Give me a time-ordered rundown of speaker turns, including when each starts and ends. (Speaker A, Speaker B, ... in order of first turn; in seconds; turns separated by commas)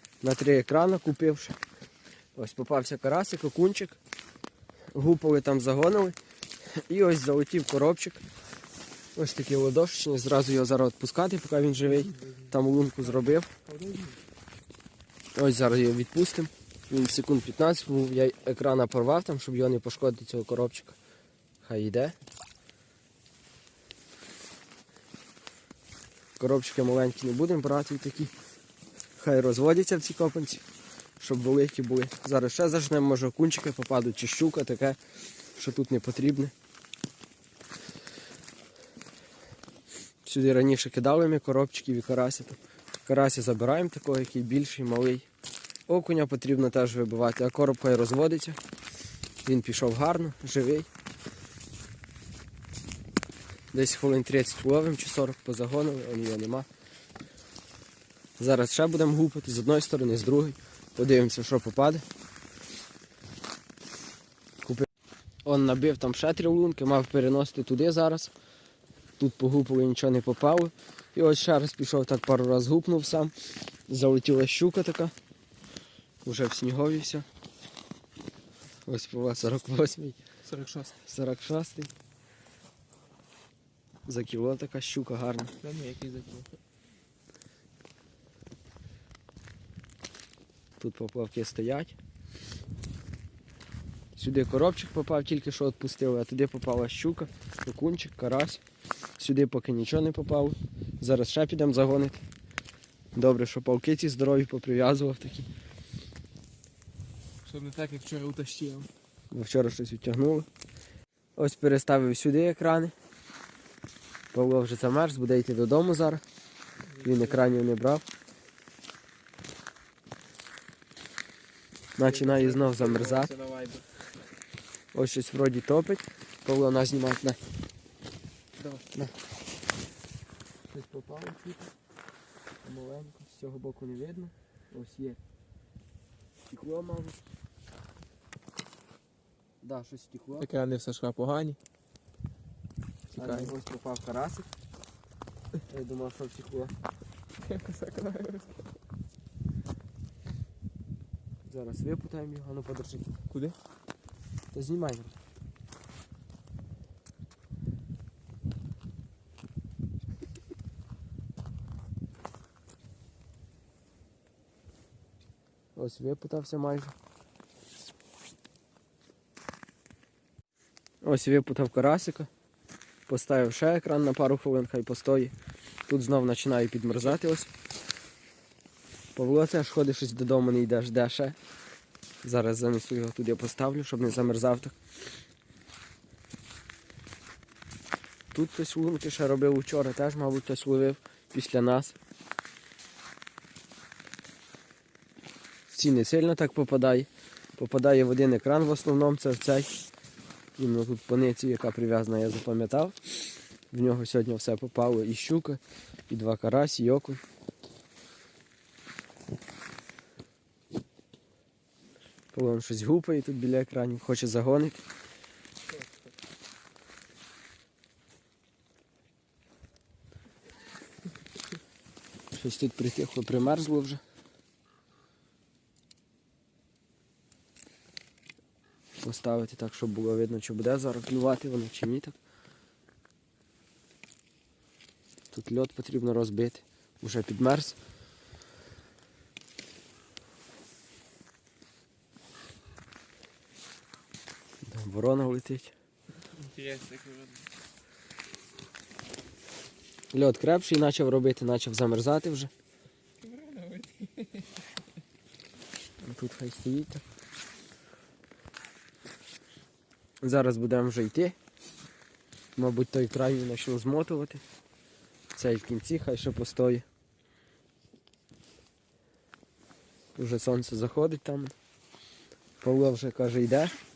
Speaker A: 0.2-1.6, Speaker A: 2.4-4.0, Speaker A: 4.9-6.2, Speaker A: 6.9-8.2, Speaker A: 9.2-13.5, Speaker B: 11.9-13.0, Speaker B: 13.6-14.2, Speaker A: 15.3-21.0, Speaker A: 21.6-22.1, Speaker A: 26.4-28.3, Speaker A: 29.2-30.6, Speaker A: 31.2-35.0, Speaker A: 35.6-36.5, Speaker A: 40.2-45.3, Speaker A: 45.9-48.6, Speaker A: 49.5-50.9, Speaker A: 53.7-56.7, Speaker A: 58.4-62.0, Speaker A: 65.5-68.3, Speaker A: 69.2-73.3, Speaker A: 73.9-75.1, Speaker A: 76.2-77.3, Speaker A: 78.9-80.2, Speaker B: 80.5-81.0, Speaker A: 81.1-81.9, Speaker A: 84.1-85.6, Speaker B: 85.6-86.5, Speaker A: 90.8-92.0, Speaker A: 94.2-98.6, Speaker A: 99.2-102.2, Speaker A: 103.2-105.5, Speaker B: 107.5-108.9, Speaker A: 109.3-110.5, Speaker A: 111.4-112.9, Speaker A: 114.3-116.2, Speaker B: 117.0-117.5, Speaker A: 117.0-118.0, Speaker A: 122.0-123.3, Speaker B: 122.0-123.9, Speaker A: 124.9-127.4, Speaker B: 128.6-128.9, Speaker A: 130.7-131.7, Speaker A: 132.6-135.2, Speaker A: 136.5-137.2, Speaker A: 139.6-140.5, Speaker B: 140.4-141.6, Speaker B: 143.2-143.5, Speaker A: 143.2-144.5, Speaker A: 145.7-146.8, Speaker B: 147.4-148.6, Speaker A: 151.5-153.2, Speaker B: 153.3-153.6, Speaker A: 154.5-155.2, Speaker A: 165.8-166.9, Speaker A: 171.0-172.3, Speaker A: 173.1-175.3, Speaker A: 175.9-177.5, Speaker A: 179.2-181.4, Speaker A: 182.2-184.8, Speaker A: 188.3-192.0, Speaker A: 195.7-199.7, Speaker A: 200.6-203.0, Speaker A: 203.7-207.2, Speaker A: 212.3-214.8, Speaker A: 222.3-224.0, Speaker A: 229.0-232.2, Speaker A: 235.3-237.8, Speaker A: 244.6-245.7, Speaker B: 246.3-247.4, Speaker A: 250.1-252.5, Speaker B: 253.2-254.5, Speaker A: 256.0-257.0, Speaker A: 260.2-261.4, Speaker A: 262.6-264.4, Speaker A: 265.4-266.9, Speaker A: 270.2-271.5, Speaker A: 272.6-273.8